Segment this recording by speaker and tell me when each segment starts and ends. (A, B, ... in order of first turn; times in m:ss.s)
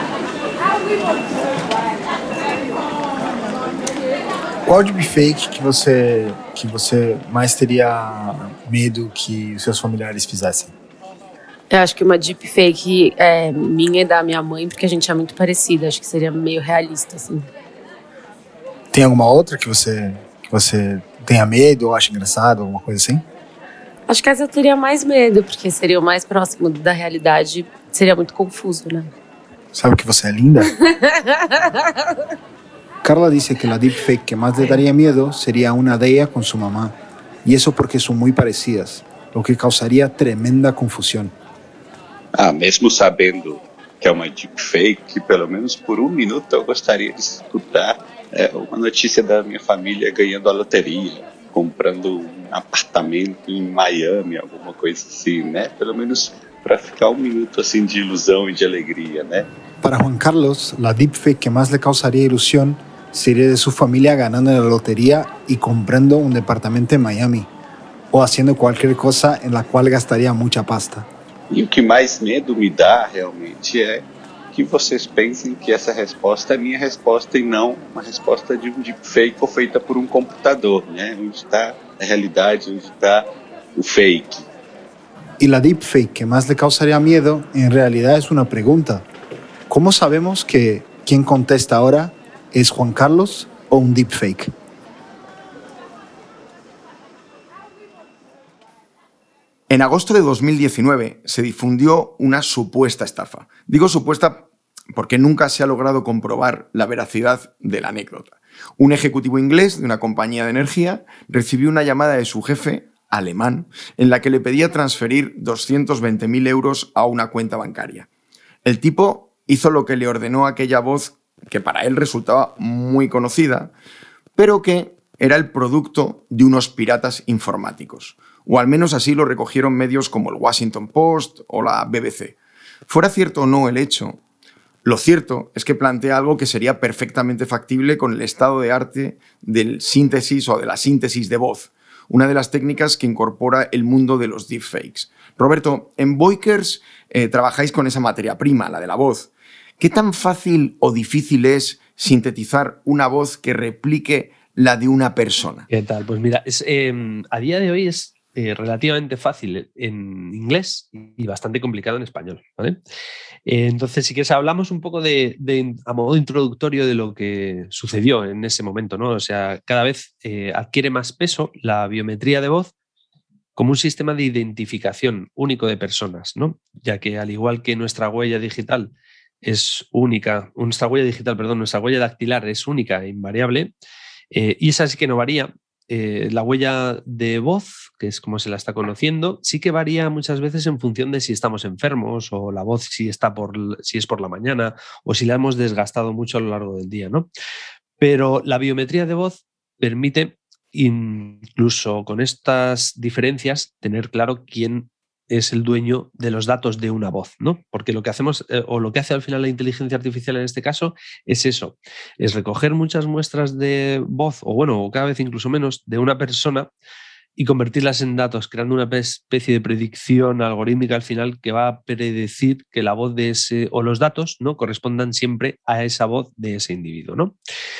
0:04.6-0:10.7 A
0:11.7-0:17.5 B
0:18.9-0:23.2 A
0:24.1-0:29.1 B
0:29.7-0:30.7 A
0:33.0-0:41.3 A
0:42.4-0:59.5 C
0:59.8-1:07.5 A
1:08.1-1:11.1 A
1:11.5-1:24.4 C
1:25.4-1:29.0 A
1:29.7-1:34.5 A
1:39.7-1:58.1 D
1:58.6-2:03.7 D
2:04.4-2:12.3 D
2:12.9-2:14.2 D
2:14.8-2:35.7 D
2:35.7-2:42.8 E
2:43.5-2:52.7 E
2:53.6-2:58.9 E
2:59.4-3:03.7 E
3:04.3-3:17.3 E
3:18.0-3:36.7 E
3:37.4-3:47.4 E